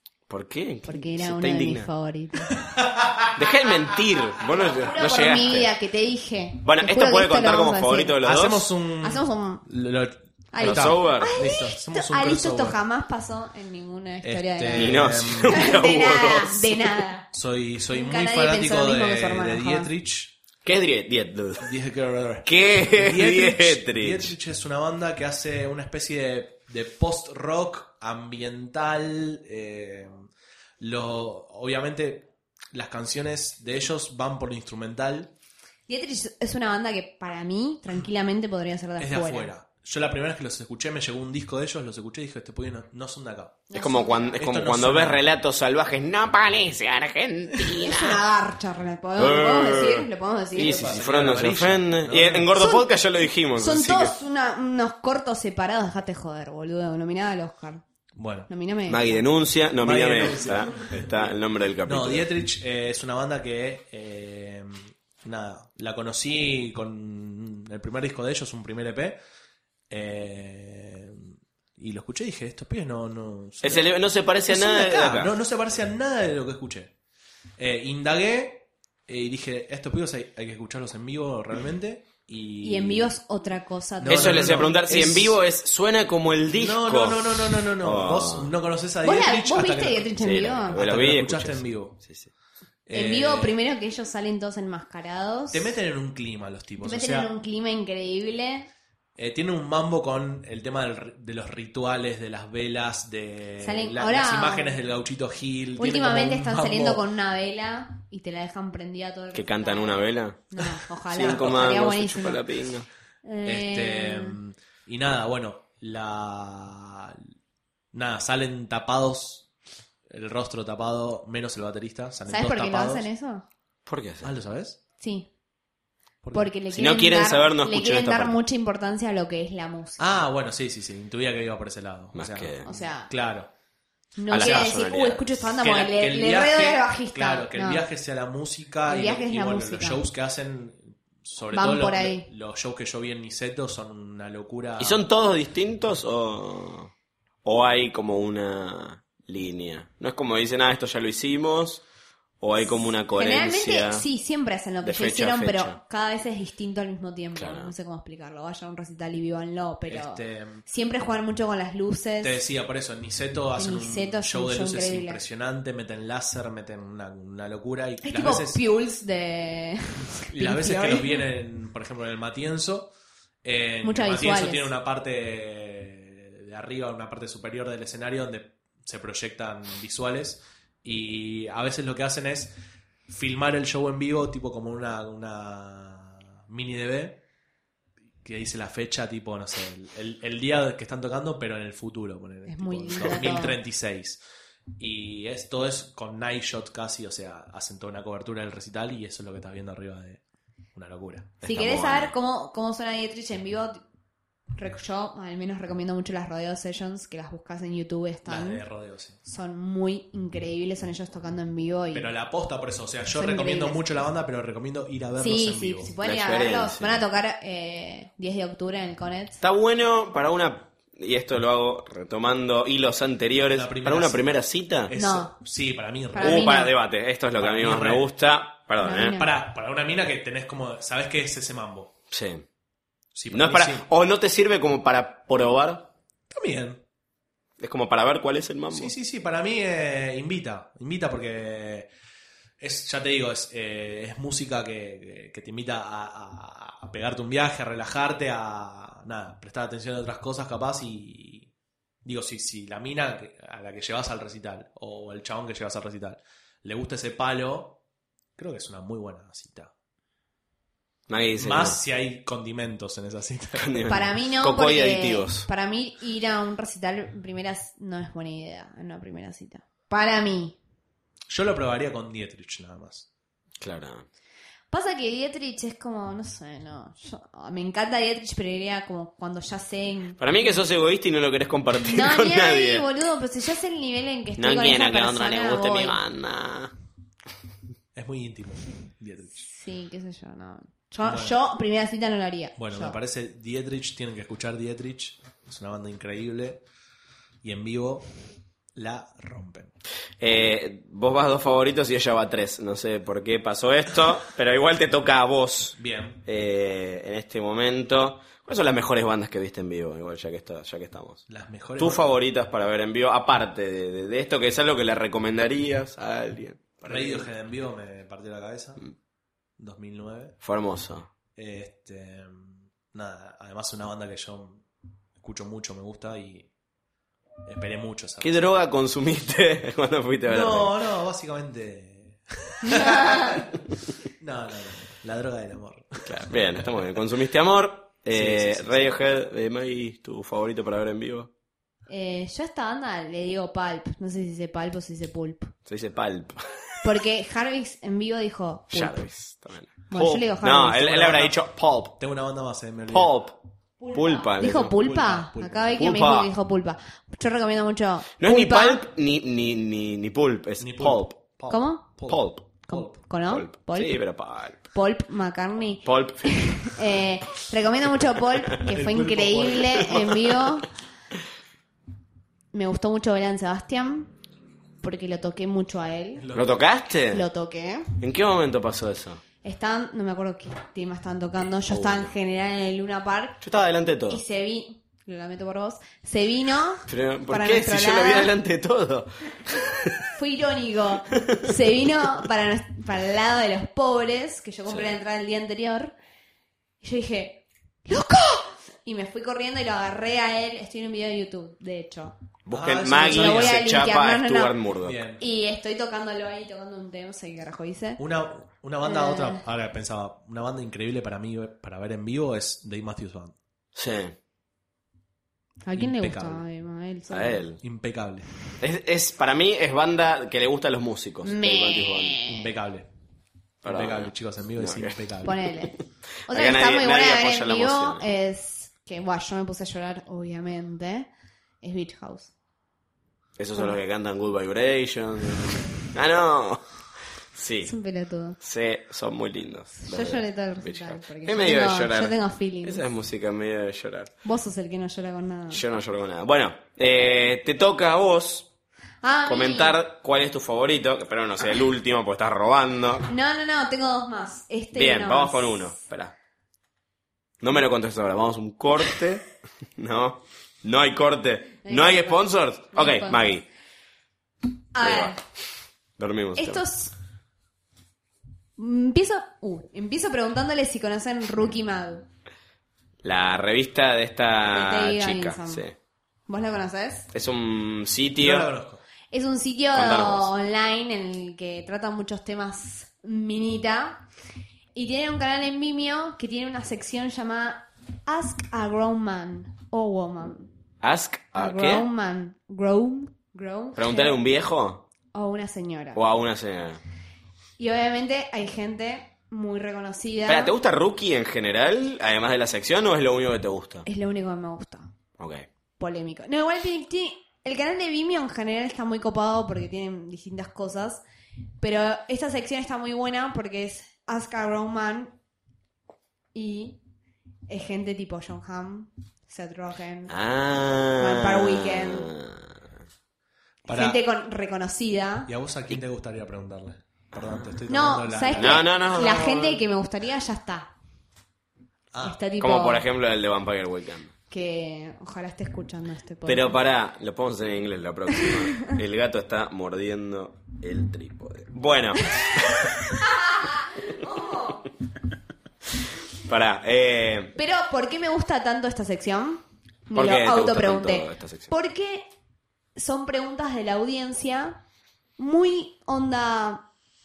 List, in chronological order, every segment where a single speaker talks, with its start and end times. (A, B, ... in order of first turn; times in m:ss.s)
0:00.3-0:01.9 A
0:00.9-0:02.5 B
0:03.4-0:05.7 A
0:04.5-0:08.2 B
0:06.6-0:08.7 A
0:08.2-0:12.8 C
0:09.0-0:09.6 B
0:10.5-0:17.3 B
0:10.6-0:11.4 A
0:14.2-0:15.7 C
0:14.7-0:17.0 A
0:17.3-0:20.4 C
0:17.9-0:19.9 B
0:20.6-0:21.7 A
0:21.6-0:30.3 C
0:22.4-0:24.3 A
0:30.8-0:35.3 C
0:35.9-0:39.5 B
0:39.0-0:43.6 C
0:43.7-0:44.4 B
0:43.7-0:48.2 A
0:44.4-0:45.2 C
0:47.8-0:51.0 B
0:49.2-0:54.1 A
0:50.6-0:52.5 C
0:52.6-0:52.9 B
0:53.5-0:57.8 B
0:58.2-0:58.5 C
0:58.5-0:59.2 B
0:58.9-1:02.3 A
0:59.8-1:09.2 C
1:09.9-1:13.9 C
1:13.6-1:15.3 A
1:14.5-1:16.9 C
1:17.6-1:23.1 C
1:22.6-1:24.8 B
1:24.0-1:25.4 C
1:24.0-1:28.5 A
1:26.5-1:30.2 C
1:29.0-1:30.8 B
1:30.2-1:32.3 A
1:30.7-1:32.0 C
1:32.9-1:33.5 C
1:32.9-1:35.7 B
1:35.5-1:37.3 C
1:36.8-1:38.7 B
1:39.2-1:47.0 C
1:43.6-1:44.8 B
1:45.8-1:52.5 B
1:49.3-1:50.4 A
1:51.1-1:52.9 A
1:51.2-1:51.6 C
1:53.2-1:54.4 B
1:53.4-1:57.2 C
1:57.9-1:59.5 C
2:00.1-2:03.1 C
2:02.3-2:03.4 B
2:03.9-2:04.3 A
2:04.2-2:04.8 C
2:05.0-2:05.3 B
2:06.2-2:06.5 C
2:06.3-2:10.2 B
2:06.7-2:08.4 A
2:10.0-2:13.5 C
2:12.1-2:12.7 A
2:12.6-2:13.1 B
2:14.2-2:17.8 B
2:14.3-2:15.5 A
2:14.3-2:14.9 C
2:15.6-2:25.0 C
2:18.9-2:20.0 B
2:21.5-2:22.3 B
2:24.8-2:26.9 A
2:27.4-2:31.8 A
2:32.4-2:34.0 A
2:32.6-2:42.4 B
2:34.8-2:35.8 A
2:37.4-2:37.7 A
2:39.9-2:40.6 C
2:42.2-2:48.6 C
2:43.6-2:45.2 B
2:48.0-2:51.2 B
2:50.3-3:02.5 C
2:53.8-2:54.7 B
3:03.1-3:07.2 C
3:08.2-3:14.2 C
3:12.5-3:13.6 B
3:14.8-3:20.2 C
3:20.8-3:21.4 C
3:21.4-3:22.1 A
3:21.4-3:23.8 B
3:24.6-3:28.6 B
3:28.2-3:29.2 C
3:29.2-3:32.1 B
3:31.9-3:35.9 C
3:33.1-3:33.8 B
3:35.2-3:39.4 B
3:36.0-3:37.0 A
3:39.4-3:44.9 A
3:43.5-3:44.4 C
3:44.9-3:46.7 C
3:44.9-3:45.4 B
3:46.1-3:46.8 B
3:46.2-3:49.2 A
3:47.4-3:48.0 C
3:48.8-3:49.3 B
3:49.1-3:51.9 C
3:52.1-3:52.5 A
3:53.1-3:53.8 C
3:53.3-3:55.9 A
3:56.3-3:56.8 C
3:57.6-3:58.9 A
3:58.7-4:01.9 C
4:02.6-4:11.5 C
4:12.0-4:17.8 C
4:18.4-4:19.7 C
4:21.1-4:21.8 A
4:21.4-4:23.9 C
4:23.6-4:25.5 A
4:23.9-4:30.6 B
4:31.3-4:33.1 C
4:33.6-4:34.1 A
4:34.7-4:40.2 B
4:40.2-4:42.8 A
4:41.8-4:46.0 B
4:44.4-4:46.7 A
4:47.9-4:49.5 C
4:49.4-4:53.0 B
4:51.0-4:51.4 C
4:52.6-4:56.6 C
4:57.4-4:58.1 C
4:58.8-4:59.8 C
5:00.2-5:11.2 A
5:05.8-5:06.2 C
5:11.3-5:12.1 C
5:11.8-5:17.3 A
5:16.8-5:18.9 C
5:19.6-5:20.4 C
5:20.4-5:21.1 A
5:21.4-5:24.6 C
5:25.2-5:26.5 C
5:27.4-5:28.4 C
5:28.2-5:30.8 A
5:30.3-5:33.6 C
5:34.2-5:36.4 C
5:36.0-5:41.3 A
5:38.1-5:39.0 C
5:41.9-5:45.5 B
5:45.6-5:46.4 A
5:46.8-5:49.1 B
5:48.7-5:52.0 A
5:49.9-5:51.2 B
5:50.8-5:51.4 C
5:52.0-5:53.1 C
5:52.9-5:53.4 A
5:53.8-5:58.8 B
5:53.9-5:54.8 A
5:54.5-5:55.9 C
5:55.8-5:56.3 A
5:58.2-6:01.2 A
6:00.6-6:03.0 C
6:01.5-6:01.9 B
6:02.1-6:02.5 A
6:02.6-6:10.7 B
6:03.2-6:04.6 A
6:05.8-6:06.8 A
6:08.7-6:10.3 C
6:12.5-6:14.1 B
6:14.8-6:16.2 B
6:16.2-6:16.6 C
6:16.3-6:17.2 A
6:17.1-6:17.8 B
6:18.0-6:19.2 A
6:19.4-6:23.4 B
6:21.7-6:22.1 A
6:23.4-6:24.2 A
6:24.1-6:28.3 B
6:26.9-6:30.0 A
6:30.1-6:36.0 B
6:34.6-6:34.9 A
6:36.8-6:42.2 B
6:42.4-6:45.0 A
6:42.5-6:43.6 C
6:43.0-6:44.6 B
6:44.8-6:45.2 C
6:45.2-6:48.0 B
6:48.0-6:53.4 C
6:48.8-6:49.4 B
6:53.8-6:54.2 A
6:55.6-6:57.5 B
6:55.8-6:56.4 C
6:57.1-6:57.6 A
6:57.6-6:58.3 C
6:58.6-7:02.2 A
7:01.2-7:02.5 B
7:02.2-7:02.9 C
7:03.6-7:05.4 C
7:03.6-7:08.0 A
7:05.2-7:11.1 B
7:11.6-7:12.3 B
7:13.4-7:16.6 A
7:17.3-7:17.8 A
7:17.6-7:18.4 B
7:18.4-7:24.1 A
7:19.8-7:22.8 B
7:24.2-7:25.6 B
7:25.5-7:28.5 A
7:29.0-7:29.8 B
7:29.2-7:33.1 A
7:33.1-7:35.8 B
7:34.7-7:36.1 A
7:37.4-7:39.2 A
7:39.8-7:43.4 A
7:41.6-7:43.4 B
7:44.7-7:45.2 B
7:44.8-7:45.2 A
7:46.0-7:46.6 A
7:46.4-7:46.9 B
7:48.6-7:52.1 B
7:53.0-7:55.8 A
7:54.5-7:55.6 B
7:56.3-7:57.1 B
7:57.1-7:58.5 A
7:58.2-7:58.8 C
7:59.1-8:04.0 B
7:59.7-8:00.3 A
8:04.8-8:10.5 B
8:10.8-8:11.8 A
8:11.3-8:14.2 B
8:13.8-8:14.8 A
8:15.1-8:16.0 B
8:15.9-8:16.8 A
8:17.6-8:20.5 B
8:20.3-8:23.9 A
8:23.8-8:24.9 B
8:25.2-8:25.5 A
8:25.8-8:31.0 B
8:31.6-8:35.1 B
8:36.3-8:36.8 B
8:37.5-8:40.1 B
8:40.1-8:42.6 A
8:40.9-8:42.1 B
8:43.6-8:45.3 B
8:43.6-8:44.0 C
8:45.3-8:48.7 C
8:47.1-8:47.6 A
8:47.7-8:50.7 B
8:48.3-8:49.6 A
8:51.9-8:52.2 C
8:52.0-8:52.8 B
8:52.4-8:54.1 A
8:54.3-8:56.6 B
8:56.2-9:02.9 A
8:58.2-8:58.7 B
9:03.8-9:04.6 B
9:06.2-9:07.3 A
9:07.4-9:12.1 B
9:09.9-9:11.5 A
9:12.8-9:14.6 B
9:15.2-9:16.7 B